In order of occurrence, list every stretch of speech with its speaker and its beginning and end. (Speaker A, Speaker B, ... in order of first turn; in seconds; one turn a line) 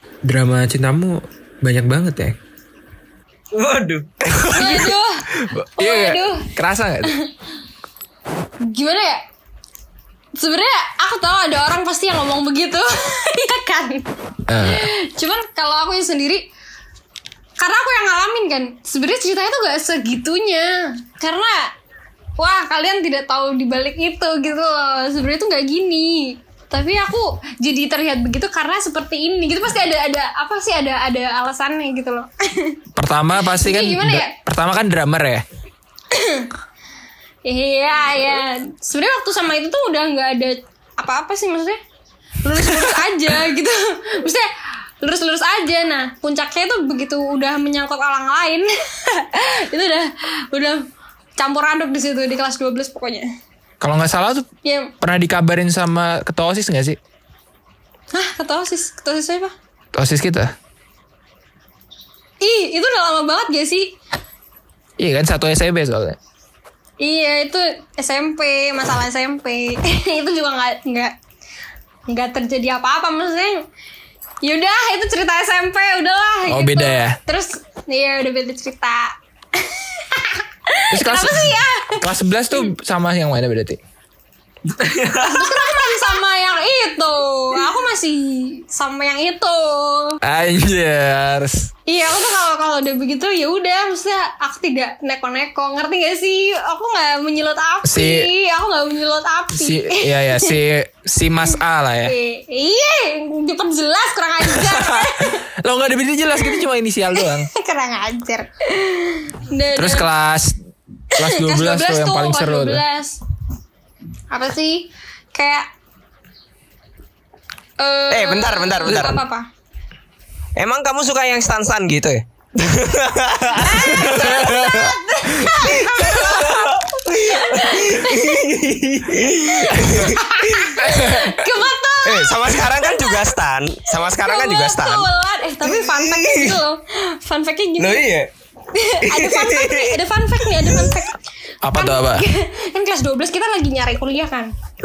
Speaker A: 0.2-2.4
Speaker B: 3.5-4.1
Speaker A: 4.2-7.1
Speaker C: 4.5-5.2
Speaker C: 5.8-6.5
Speaker C: 7.0-7.3
Speaker C: 8.6-9.2
Speaker C: 10.3-16.5
Speaker A: 14.5-14.9
Speaker C: 17.6-21.7
Speaker C: 22.4-32.8
Speaker A: 33.0-35.4
Speaker C: 33.5-34.3
Speaker C: 36.1-36.5
Speaker C: 37.5-41.8
Speaker C: 42.4-44.5
Speaker C: 45.0-50.9
Speaker C: 51.4-53.3
Speaker A: 53.8-54.5
Speaker C: 54.6-54.9
Speaker A: 55.0-57.0
Speaker C: 58.1-59.5
Speaker A: 59.9-60.5
Speaker C: 62.4-64.0
Speaker A: 65.0-66.2
Speaker C: 67.0-71.2
Speaker C: 72.1-73.7
Speaker C: 74.4-82.6
Speaker A: 76.5-77.2
Speaker A: 80.9-83.8
Speaker B: 84.7-85.9
Speaker C: 85.2-90.2
Speaker A: 90.2-91.7
Speaker C: 91.9-100.6
Speaker A: 97.8-98.3
Speaker A: 99.5-102.1
Speaker C: 102.0-105.5
Speaker A: 104.4-107.5
Speaker C: 107.2-110.1
Speaker A: 109.7-110.6
Speaker A: 111.1-112.8
Speaker C: 111.2-113.2
Speaker C: 114.3-115.7
Speaker C: 117.8-119.5
Speaker B: 118.1-119.2
Speaker B: 120.6-124.4
Speaker C: 123.6-128.5
Speaker A: 123.9-126.7
Speaker B: 125.8-130.8
Speaker C: 129.7-133.3
Speaker A: 130.8-131.3
Speaker B: 132.1-135.1
Speaker C: 134.0-138.1
Speaker B: 135.6-136.6
Speaker B: 137.8-138.3
Speaker C: 138.7-141.2
Speaker B: 139.0-140.0
Speaker B: 140.5-140.9
Speaker A: 141.6-142.3
Speaker C: 141.7-144.5